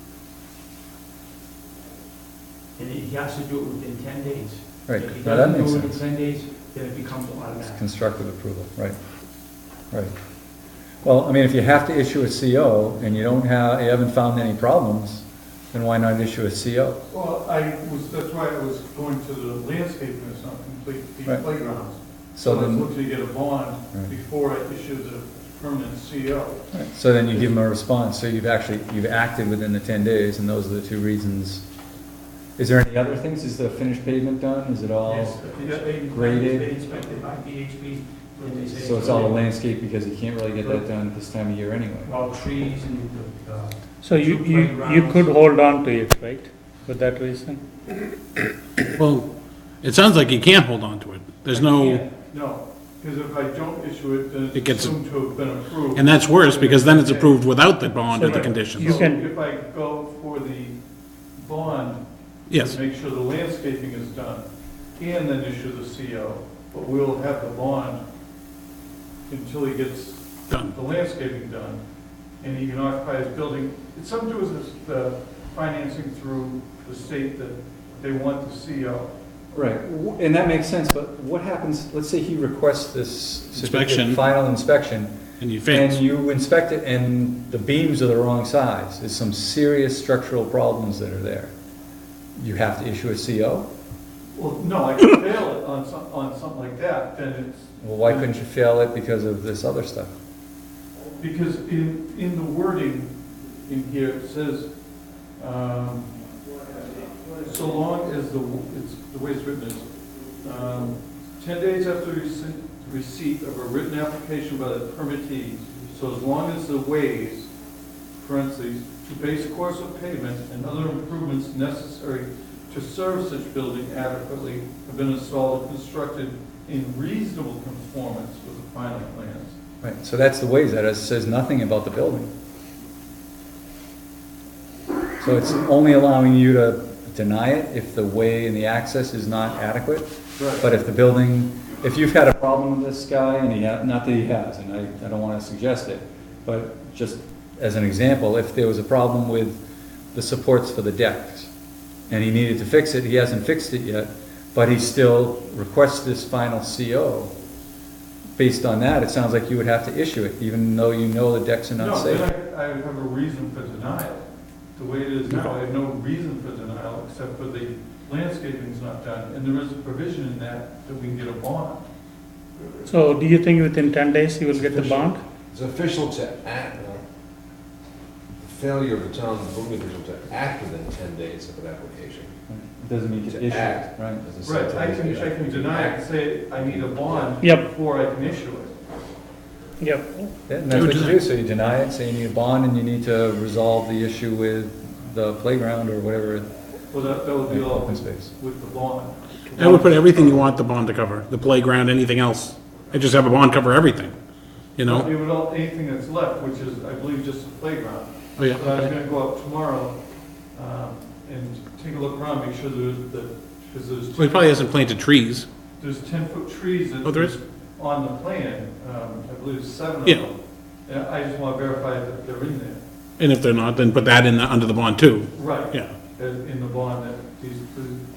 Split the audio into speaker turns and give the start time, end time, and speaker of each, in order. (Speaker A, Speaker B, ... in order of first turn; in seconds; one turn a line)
Speaker A: 2.8-7.8
Speaker B: 4.9-6.0
Speaker B: 7.6-9.0
Speaker B: 11.0-17.0
Speaker C: 17.1-26.7
Speaker B: 22.3-22.9
Speaker B: 26.7-31.6
Speaker B: 32.6-35.3
Speaker A: 35.1-39.4
Speaker C: 35.2-36.1
Speaker B: 36.1-36.7
Speaker B: 38.8-42.1
Speaker A: 42.0-45.3
Speaker D: 44.0-47.6
Speaker E: 48.9-49.3
Speaker E: 49.8-52.0
Speaker A: 51.5-52.1
Speaker C: 52.2-57.5
Speaker E: 54.5-55.0
Speaker E: 55.9-59.0
Speaker C: 58.1-60.8
Speaker D: 58.1-59.2
Speaker C: 61.4-62.0
Speaker E: 62.5-62.8
Speaker C: 62.5-64.5
Speaker C: 65.0-68.0
Speaker C: 69.3-71.8
Speaker E: 70.5-70.8
Speaker C: 72.4-79.1
Speaker B: 79.5-85.1
Speaker E: 83.6-84.2
Speaker E: 85.4-86.0
Speaker B: 85.6-91.5
Speaker B: 92.4-93.7
Speaker C: 94.3-98.3
Speaker B: 97.8-100.1
Speaker C: 101.2-104.7
Speaker C: 105.4-106.1
Speaker C: 107.4-109.9
Speaker C: 110.4-117.5
Speaker C: 118.2-129.6
Speaker B: 129.8-132.3
Speaker B: 135.2-151.5
Speaker C: 140.4-140.7
Speaker B: 152.1-157.3
Speaker B: 158.3-162.3
Speaker C: 161.8-164.2
Speaker C: 164.8-171.8
Speaker D: 172.8-175.2
Speaker F: 174.5-177.0
Speaker F: 178.4-182.3
Speaker B: 182.5-184.2
Speaker F: 183.2-187.4
Speaker C: 184.4-188.8
Speaker D: 187.4-187.7
Speaker D: 189.8-190.3
Speaker B: 190.5-196.5
Speaker E: 190.7-191.2
Speaker C: 196.9-200.2
Speaker B: 197.4-198.3
Speaker E: 199.6-204.1
Speaker E: 204.8-205.1
Speaker C: 204.8-210.0
Speaker E: 208.4-208.9
Speaker C: 210.5-214.6
Speaker E: 214.2-215.5
Speaker C: 215.8-222.8
Speaker E: 217.0-217.3
Speaker E: 223.2-225.9
Speaker C: 225.3-228.0